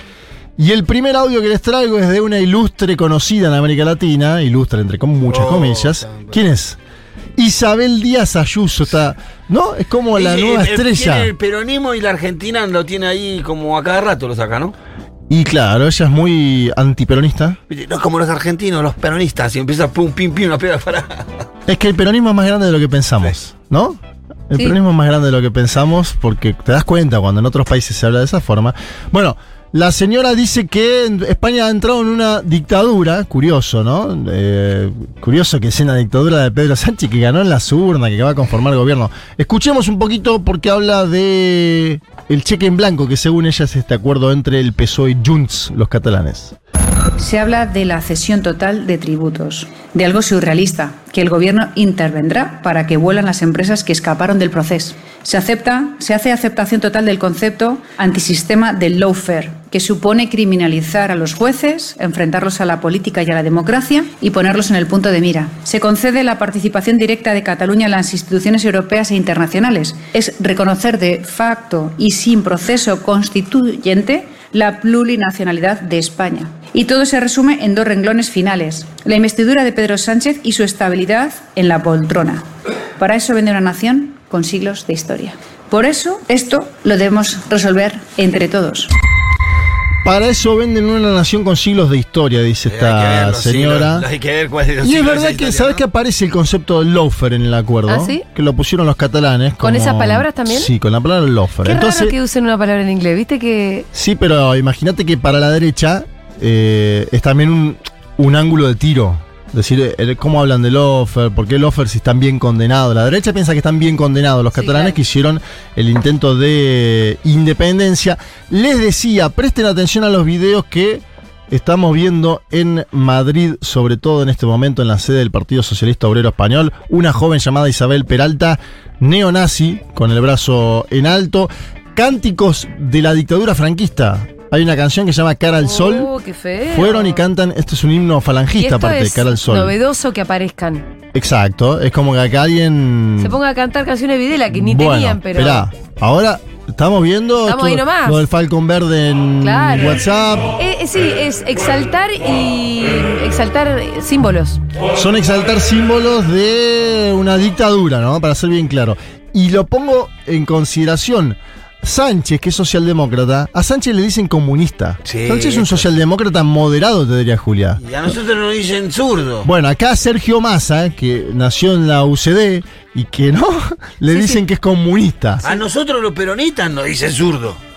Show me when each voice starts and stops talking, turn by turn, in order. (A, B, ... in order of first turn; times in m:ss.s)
0:00.6-0:06.8 A
0:05.3-0:06.4 B
0:07.4-0:11.3 A
0:10.2-0:14.8 B
0:15.3-0:17.6 A
0:17.7-0:21.5 B
0:21.7-0:46.6 A
0:47.2-1:22.4 C
1:23.0-1:28.9 C
1:30.0-1:34.1 A
1:32.7-1:35.8 B
1:34.8-1:42.2 A
1:37.9-1:38.2 D
1:39.6-1:40.7 D
1:41.6-1:43.9 D
1:43.9-2:16.1 A
1:54.6-1:55.0 D
2:15.6-2:17.2 D
2:16.7-2:19.8 A
2:18.6-2:20.8 D
2:21.1-2:23.4 A
2:23.2-2:25.7 D
2:24.5-2:30.6 A
2:27.4-2:28.2 D
2:29.4-2:30.0 D
2:30.6-2:34.6 D
2:35.0-2:47.8 A
2:45.1-2:45.9 B
2:47.8-2:49.5 B
2:49.4-2:55.6 A
2:54.1-2:54.4 D
2:55.4-2:57.6 B